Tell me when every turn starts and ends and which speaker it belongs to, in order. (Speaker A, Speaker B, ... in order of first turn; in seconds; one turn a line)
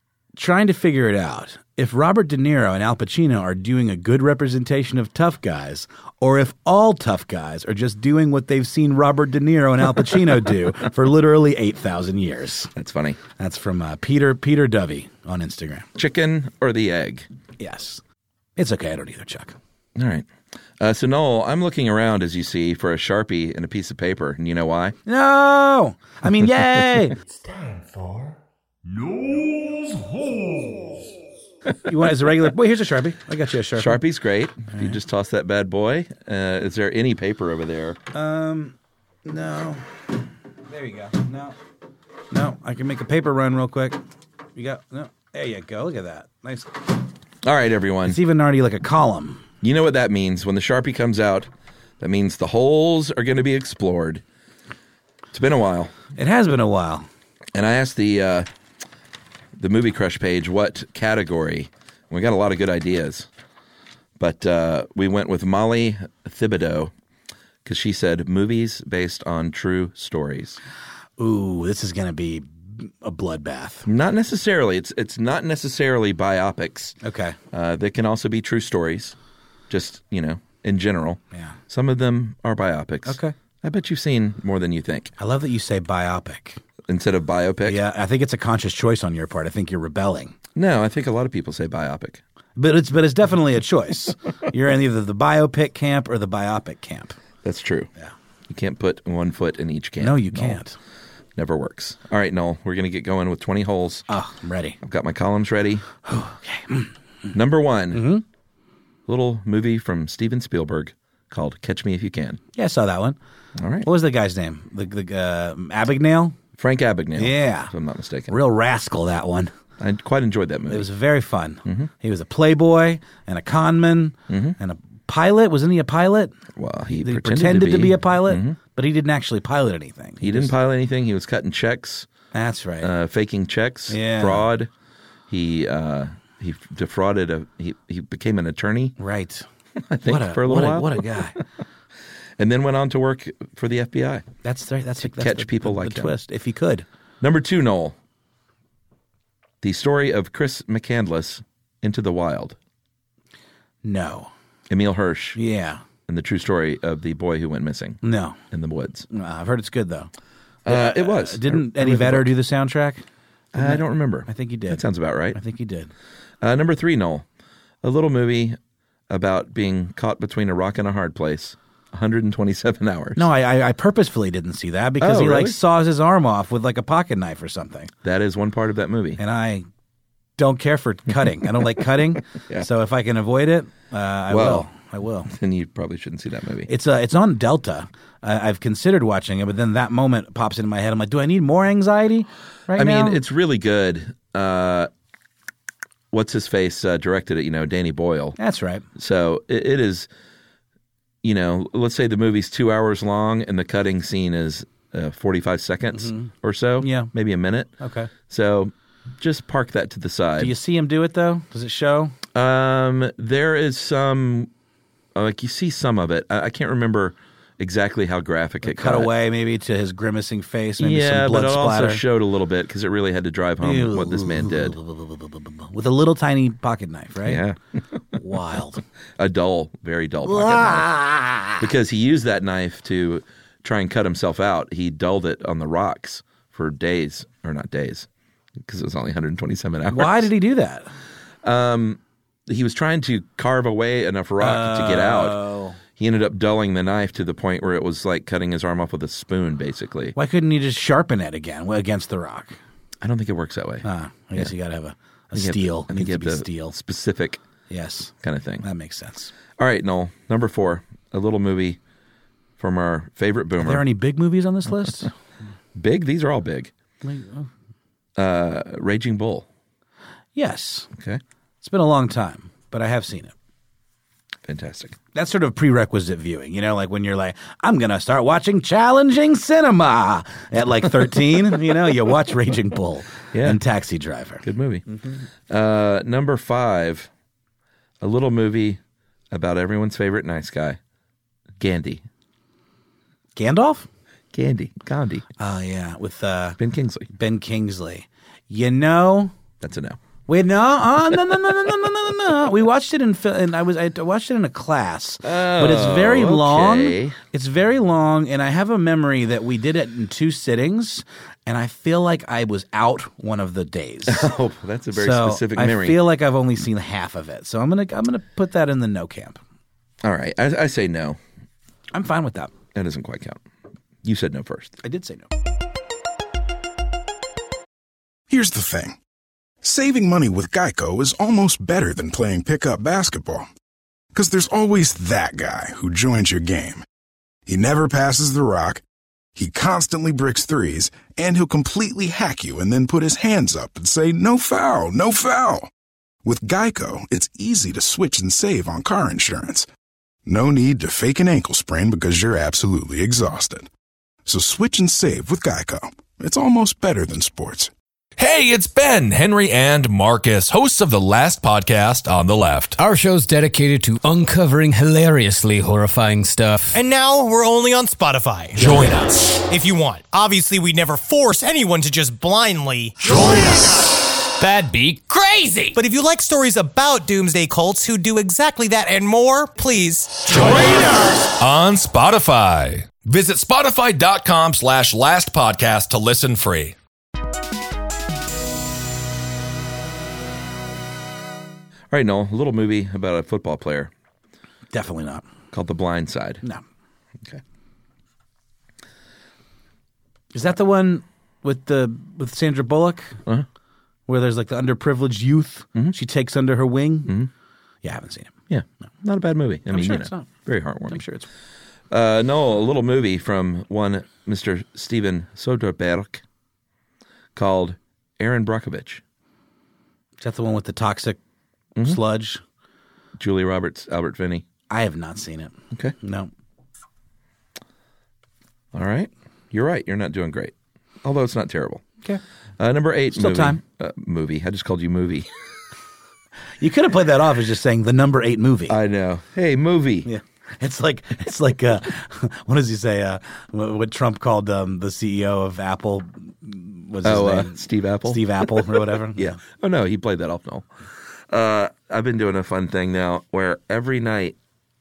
Speaker A: 0.3-12.7
Speaker B: 12.8-13.2
Speaker A: 13.3-15.9
Speaker B: 15.9-17.3
Speaker A: 17.6-18.0
Speaker A: 18.6-19.6
Speaker B: 19.9-20.3
Speaker B: 20.8-24.9
Speaker A: 25.1-27.2
Speaker A: 31.8-34.0
Speaker B: 33.8-38.0
Speaker A: 38.1-39.9
Speaker A: 40.7-41.6
Speaker A: 42.3-44.0
Speaker A: 44.5-46.8
Speaker B: 47.4-48.2
Speaker A: 48.0-49.4
Speaker B: 49.6-54.2
Speaker B: 55.3-55.9
Speaker A: 56.1-57.1
Speaker B: 57.5-58.5
Speaker B: 59.6-63.3
Speaker B: 64.2-66.9
Speaker B: 67.6-70.6
Speaker A: 71.2-73.8
Speaker B: 73.8-77.0
Speaker A: 77.0-77.4
Speaker B: 77.5-79.1
Speaker B: 79.7-85.1
Speaker A: 83.0-83.3
Speaker A: 85.2-86.6
Speaker B: 86.9-87.8
Speaker A: 87.6-90.3
Speaker B: 90.5-92.2
Speaker A: 92.6-97.2
Speaker B: 97.4-97.9
Speaker B: 98.5-100.6
Speaker A: 100.0-100.8
Speaker B: 101.3-104.0
Speaker A: 104.1-104.8
Speaker B: 104.8-105.8
Speaker A: 106.0-107.3
Speaker B: 107.3-108.1
Speaker A: 107.9-108.2
Speaker B: 109.0-112.4
Speaker A: 112.5-113.2
Speaker B: 113.6-113.9
Speaker A: 113.8-116.3
Speaker B: 116.6-118.3
Speaker A: 117.2-117.7
Speaker A: 118.3-119.5
Speaker B: 119.8-120.9
Speaker A: 120.7-126.3
Speaker B: 124.3-124.5
Speaker B: 126.5-128.6
Speaker A: 127.0-130.5
Speaker B: 130.2-132.1
Speaker A: 132.3-132.9
Speaker B: 132.8-134.7
Speaker A: 133.9-134.5
Speaker B: 135.3-138.9
Speaker A: 139.0-139.4
Speaker B: 139.8-141.4
Speaker A: 140.0-141.4
Speaker B: 142.4-144.2
Speaker A: 144.4-146.8
Speaker B: 145.0-146.2
Speaker B: 147.2-147.9
Speaker B: 149.6-152.6
Speaker A: 153.8-154.3
Speaker B: 154.7-155.4
Speaker A: 155.3-155.8
Speaker B: 156.1-159.1
Speaker A: 158.0-158.4
Speaker A: 159.1-160.1
Speaker B: 160.6-162.3
Speaker A: 160.7-165.9
Speaker B: 163.5-165.4
Speaker B: 166.4-167.2
Speaker B: 167.8-168.6
Speaker B: 169.1-173.3
Speaker A: 173.2-177.9
Speaker B: 175.0-175.6
Speaker B: 178.0-179.2
Speaker A: 179.2-179.7
Speaker A: 180.4-185.3
Speaker B: 182.3-182.7
Speaker B: 184.3-184.7
Speaker B: 185.3-186.7
Speaker A: 186.7-193.2
Speaker B: 192.7-194.9
Speaker B: 196.1-198.4
Speaker A: 198.4-198.8
Speaker B: 198.9-200.1
Speaker B: 201.2-207.7
Speaker A: 205.9-207.1
Speaker A: 207.8-208.1
Speaker B: 208.3-210.5
Speaker A: 210.4-212.2
Speaker B: 212.3-214.5
Speaker B: 215.1-219.1
Speaker A: 218.6-222.0
Speaker B: 220.8-224.8
Speaker A: 223.6-227.4
Speaker B: 227.2-228.0
Speaker A: 228.1-228.8
Speaker B: 229.2-230.9
Speaker A: 230.2-231.6
Speaker B: 231.6-238.1
Speaker B: 238.6-240.3
Speaker A: 239.9-240.9
Speaker B: 241.4-245.4
Speaker A: 244.4-245.8
Speaker B: 246.0-250.2
Speaker A: 250.2-252.6
Speaker B: 253.0-254.5
Speaker A: 253.8-256.8
Speaker B: 255.3-257.4
Speaker A: 257.7-259.3
Speaker B: 258.2-258.6
Speaker B: 259.6-261.8
Speaker B: 262.6-263.9
Speaker A: 263.6-265.1
Speaker B: 265.7-266.7
Speaker A: 267.0-267.5
Speaker B: 268.2-269.5
Speaker A: 270.3-270.9
Speaker B: 270.9-271.2
Speaker A: 271.6-273.3
Speaker B: 274.4-274.9
Speaker A: 275.1-285.2
Speaker B: 283.3-283.6
Speaker B: 284.4-284.8
Speaker B: 285.5-287.1
Speaker B: 288.0-288.8
Speaker B: 289.3-290.8
Speaker B: 291.6-292.0
Speaker A: 293.4-293.9
Speaker B: 294.3-295.2
Speaker A: 295.4-296.6
Speaker B: 296.6-297.1
Speaker A: 297.1-299.3
Speaker B: 299.6-300.0
Speaker A: 300.3-314.3
Speaker B: 305.2-307.2
Speaker B: 314.1-316.0
Speaker A: 314.9-319.4
Speaker B: 320.0-321.2
Speaker A: 321.9-322.5
Speaker B: 322.7-323.4
Speaker B: 324.0-324.8
Speaker A: 324.8-325.3
Speaker C: 328.3-329.0
Speaker C: 329.6-333.5
Speaker C: 334.1-336.8
Speaker C: 337.4-338.8
Speaker C: 339.4-345.7
Speaker C: 346.2-349.7
Speaker C: 350.2-353.7
Speaker C: 354.2-357.7
Speaker D: 358.2-362.8
Speaker E: 362.8-366.8
Speaker F: 366.7-368.7
Speaker D: 368.6-369.3
Speaker F: 369.4-373.6
Speaker E: 374.4-375.8
Speaker F: 375.7-380.3
Speaker D: 380.3-386.7
Speaker B: 391.9-393.9
Speaker A: 394.7-395.2
Speaker B: 395.5-396.4
Speaker A: 400.3-403.2
Speaker A: 404.1-407.1
Speaker A: 407.8-408.3
Speaker B: 408.5-411.0
Speaker A: 409.7-410.3
Speaker A: 410.9-411.3
Speaker B: 411.9-416.2
Speaker B: 417.3-419.0
Speaker A: 420.2-421.2
Speaker A: 421.8-422.4
Speaker B: 423.2-424.4
Speaker A: 424.7-426.3
Speaker B: 428.7-431.8
Speaker B: 432.6-435.3
Speaker A: 433.1-433.6
Speaker A: 436.6-438.8
Speaker B: 438.7-440.1
Speaker A: 440.0-449.4
Speaker B: 447.0-450.7
Speaker B: 451.3-454.4